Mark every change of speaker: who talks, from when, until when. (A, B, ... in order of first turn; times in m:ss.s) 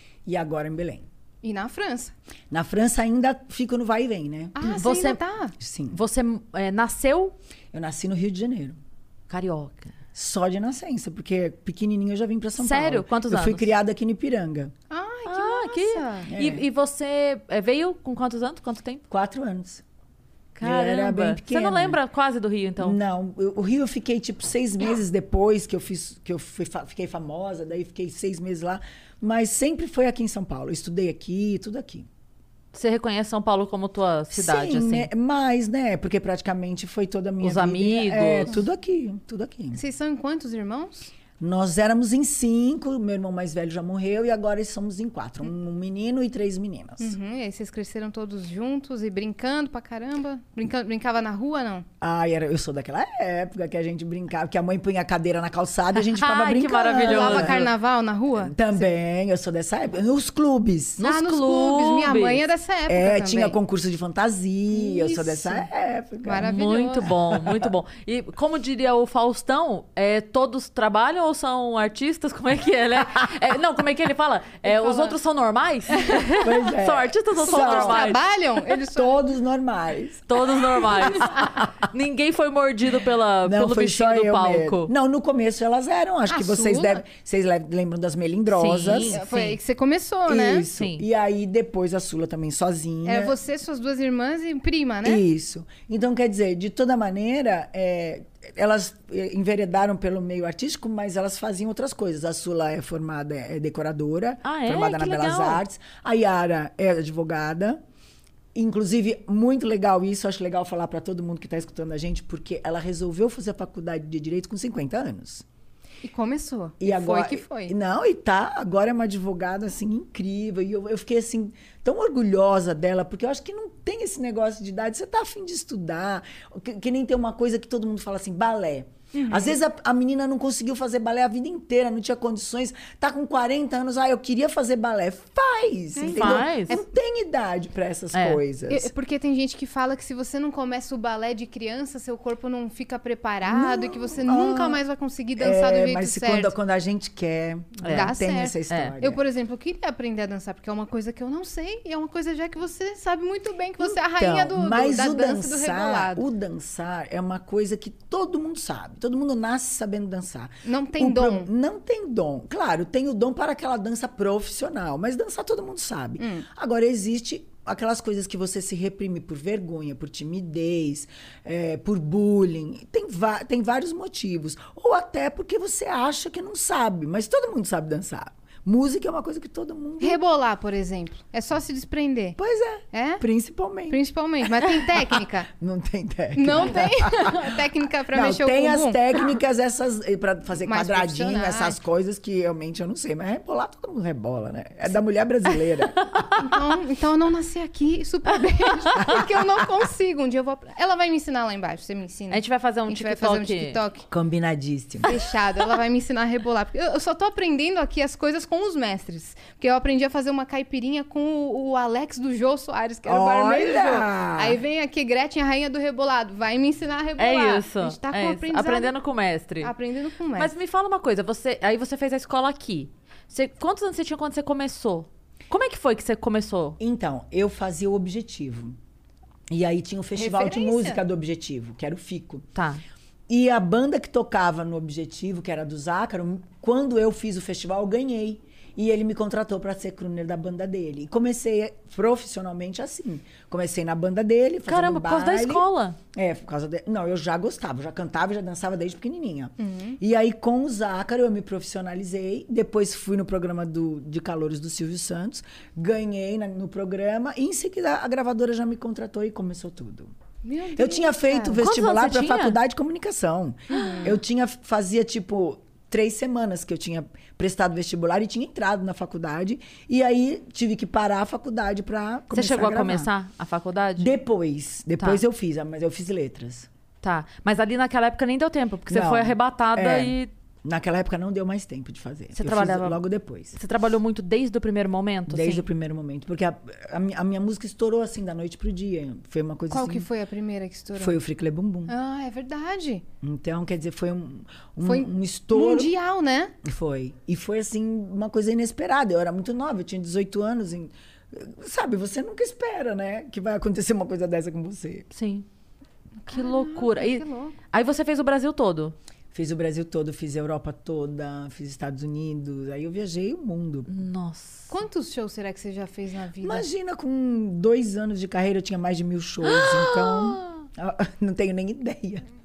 0:00.3-0:01.1 A
0:01.4-0:02.1 B
0:02.5-0:04.6 A
0:04.6-0:05.5 B
0:04.7-0:05.2 C
0:05.6-0:06.0 A
0:05.9-0:07.4 C
0:07.7-0:08.8 A
0:09.3-0:09.9 C
0:10.2-0:14.7 A
0:12.6-0:13.7 C
0:14.9-0:16.3 B
0:15.3-0:19.0 C
0:16.3-0:16.6 A
0:19.1-0:19.8 A
0:20.6-0:23.0 C
0:20.6-0:22.0 A
0:22.8-0:32.1 A
0:32.7-0:35.1 C
0:34.3-0:39.8 A
0:37.4-0:38.6 C
0:39.7-0:41.1 B
0:41.4-0:47.2 A
0:47.0-0:51.9 B
0:52.0-0:57.6 A
0:56.0-0:57.7 C
0:57.0-0:58.8 B
0:58.4-1:01.1 A
1:01.0-1:02.4 C
1:01.0-1:03.6 B
1:02.9-1:07.6 A
1:04.7-1:05.7 B
1:06.2-1:07.1 B
1:06.4-1:18.2 C
1:14.6-1:15.2 B
1:16.4-1:18.1 A
1:17.4-1:19.2 B
1:18.9-1:21.6 A
1:20.3-1:24.9 C
1:21.0-1:21.4 B
1:23.4-1:29.2 A
1:26.3-1:27.0 B
1:28.5-1:29.6 C
1:29.1-1:30.7 B
1:30.3-1:33.4 A
1:30.7-1:31.0 C
1:33.1-1:35.2 B
1:35.0-1:47.8 A
1:44.4-1:45.6 C
1:48.6-1:55.4 A
1:56.0-1:57.7 B
1:56.8-2:18.9 A
2:09.1-2:09.6 B
2:16.0-2:16.5 B
2:16.0-2:16.8 C
2:18.1-2:18.4 C
2:18.7-2:26.5 B
2:23.4-2:24.8 A
2:25.4-2:29.2 A
2:27.8-2:28.2 C
2:27.9-2:36.2 B
2:28.7-2:29.0 C
2:33.8-3:00.2 A
2:40.6-2:41.5 B
2:46.2-2:46.5 B
3:00.0-3:02.4 B
3:02.4-3:04.0 A
3:02.9-3:03.2 B
3:03.9-3:05.5 B
3:05.5-3:16.2 A
3:06.4-3:09.3 B
3:10.6-3:11.8 B
3:16.3-3:24.1 B
3:22.3-3:23.8 C
3:24.1-3:25.2 A
3:25.0-3:39.0 B
3:33.1-3:34.6 A
3:37.2-3:39.7 C
3:39.6-3:40.5 B
3:40.4-3:46.8 C
3:46.8-3:48.8 A
3:49.5-3:52.5 A
3:50.2-3:51.0 B
3:52.6-3:52.8 C
3:53.3-4:20.1 A
4:04.7-4:06.0 C
4:09.6-4:10.0 B
4:20.4-4:21.6 B
4:20.8-4:33.1 A
4:21.6-4:22.6 C
4:23.7-4:24.2 B
4:32.3-4:34.1 C
4:34.0-4:36.7 A
4:37.0-4:40.3 C
4:38.9-4:43.6 A
4:42.3-4:43.0 C
4:43.5-4:45.7 C
4:45.3-4:50.1 A
4:49.7-4:51.2 B
4:51.0-4:51.9 A
4:51.9-4:53.0 B
4:53.2-4:55.9 A
4:54.8-4:56.5 B
4:56.6-5:05.1 A
5:05.1-5:05.5 C
5:06.3-5:07.6 B
5:06.3-5:09.0 C
5:09.3-5:13.9 A
5:13.9-5:14.7 C
5:14.7-5:16.7 B
5:16.4-5:22.2 A
5:19.4-5:20.6 C